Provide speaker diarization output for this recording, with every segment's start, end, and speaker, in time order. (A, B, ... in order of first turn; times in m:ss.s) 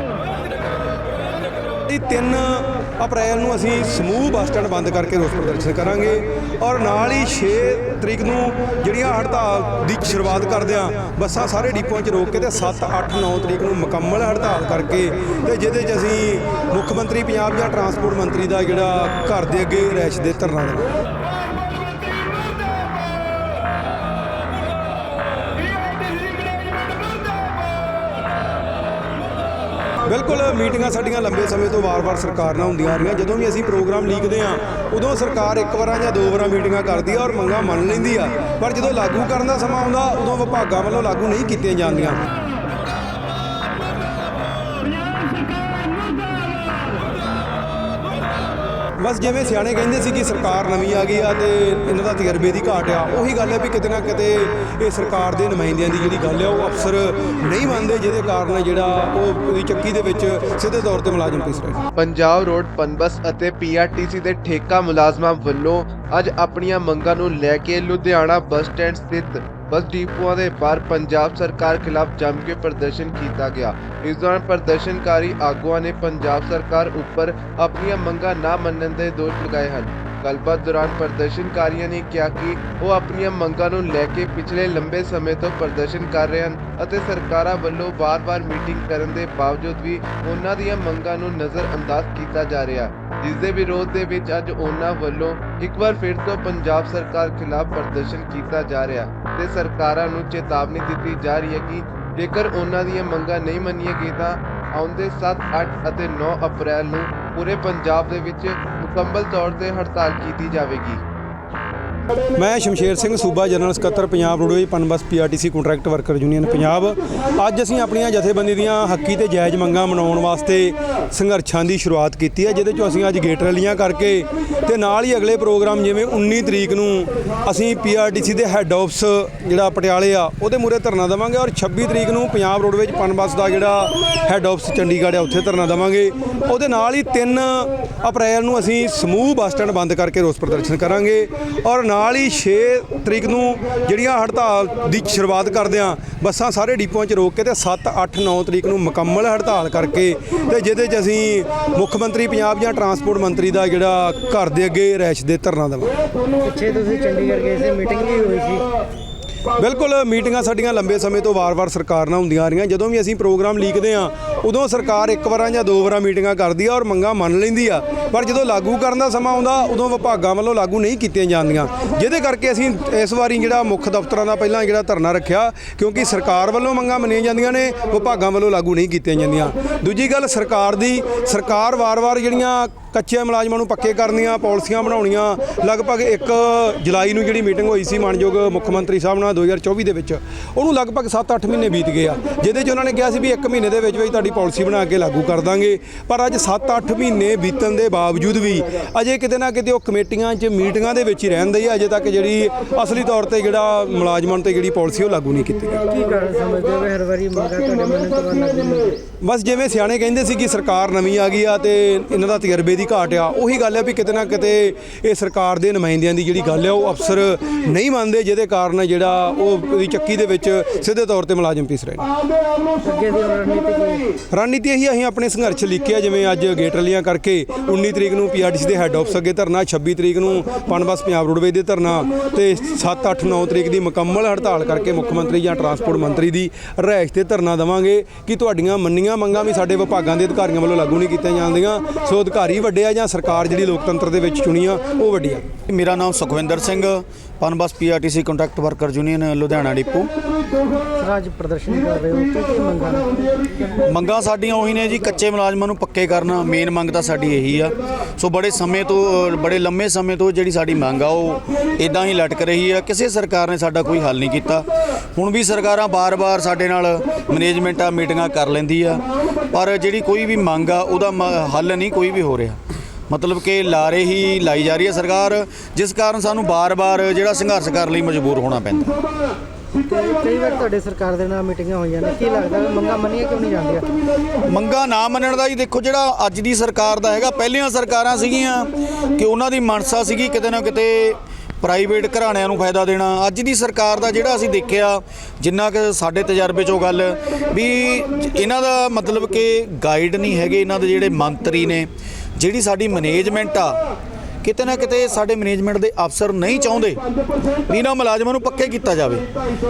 0:01.9-0:20.9 A
0:30.1-0:42.2 A
0:49.0-1:01.8 A
1:02.0-1:51.0 B
1:52.4-2:35.9 A
2:36.4-2:38.7 C
2:39.6-3:25.8 A
3:25.8-3:29.0 C
3:29.2-3:42.0 A
3:42.8-3:44.0 C
3:44.3-4:05.4 A
4:05.7-4:10.1 D
4:11.0-4:13.8 C
4:13.8-4:38.9 D
4:39.8-4:43.9 C
4:44.4-5:03.8 D
5:04.4-5:07.0 D
5:07.7-5:09.2 D